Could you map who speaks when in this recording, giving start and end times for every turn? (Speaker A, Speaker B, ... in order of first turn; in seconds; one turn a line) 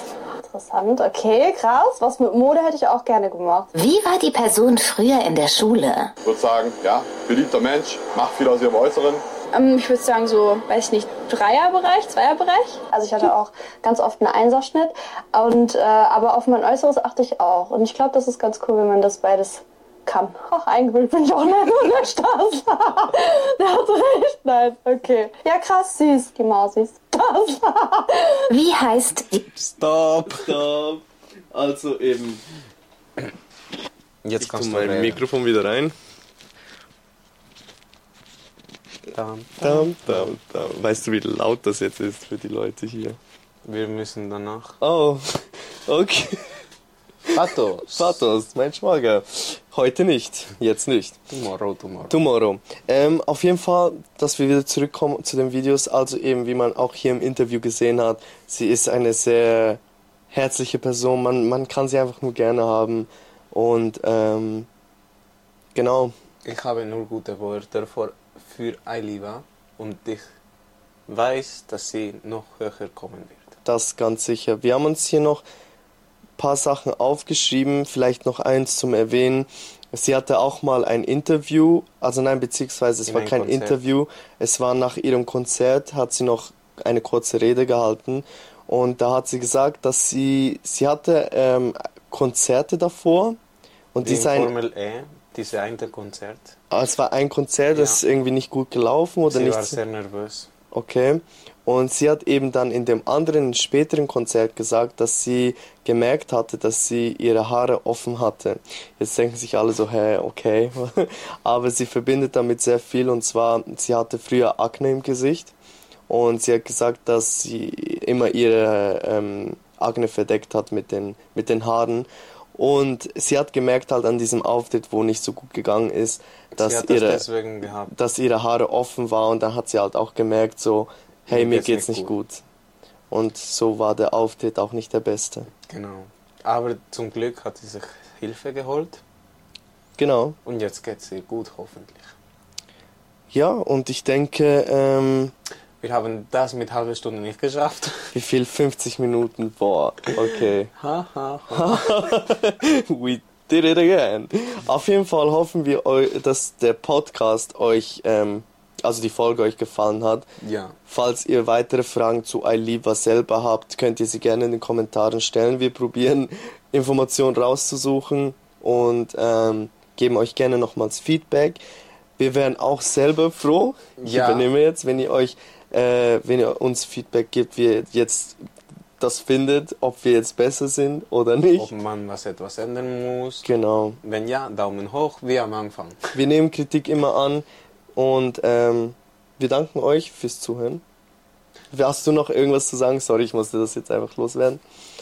Speaker A: 0.4-3.7
Speaker B: 3.8-6.1
Speaker C: 6.2-9.2
Speaker A: 9.5-28.5
Speaker B: 28.5-29.4
Speaker D: 29.5-30.6
Speaker E: 30.3-32.4
Speaker D: 34.2-35.3
Speaker E: 34.4-35.9
Speaker D: 39.1-40.7
Speaker E: 39.6-43.2
Speaker D: 43.6-44.8
Speaker E: 44.8-46.6
Speaker D: 47.3-48.2
Speaker E: 47.9-51.2
Speaker D: 51.3-52.2
Speaker E: 52.1-59.8
Speaker E: 60.3-64.7
Speaker E: 65.8-66.1
Speaker D: 66.4-70.3
Speaker D: 71.1-73.5
Speaker E: 73.7-75.4
Speaker E: 76.4-93.4
Speaker D: 83.1-83.8
Speaker E: 93.9-94.5
Speaker D: 94.0-96.6
Speaker E: 96.7-99.8
Speaker D: 97.7-98.0
Speaker D: 99.3-100.5
Speaker E: 100.7-115.5
Speaker E: 116.1-127.2
Speaker D: 126.5-127.9
Speaker E: 127.9-132.4
Speaker D: 131.3-132.1
Speaker E: 133.1-135.5
Speaker D: 135.7-139.0
Speaker E: 140.0-140.4
Speaker D: 140.4-142.2
Speaker E: 143.3-145.3
Speaker D: 145.8-148.1
Speaker E: 148.1-150.7
Speaker D: 150.8-152.0
Speaker E: 151.5-160.3
Speaker D: 160.4-160.8
Speaker E: 160.9-171.6
Speaker E: 172.2-178.4
Speaker D: 174.0-174.5
Speaker E: 179.0-181.7
Speaker D: 181.6-183.5
Speaker E: 183.4-184.0
Speaker D: 184.0-186.0
Speaker E: 186.2-190.8
Speaker E: 191.7-194.6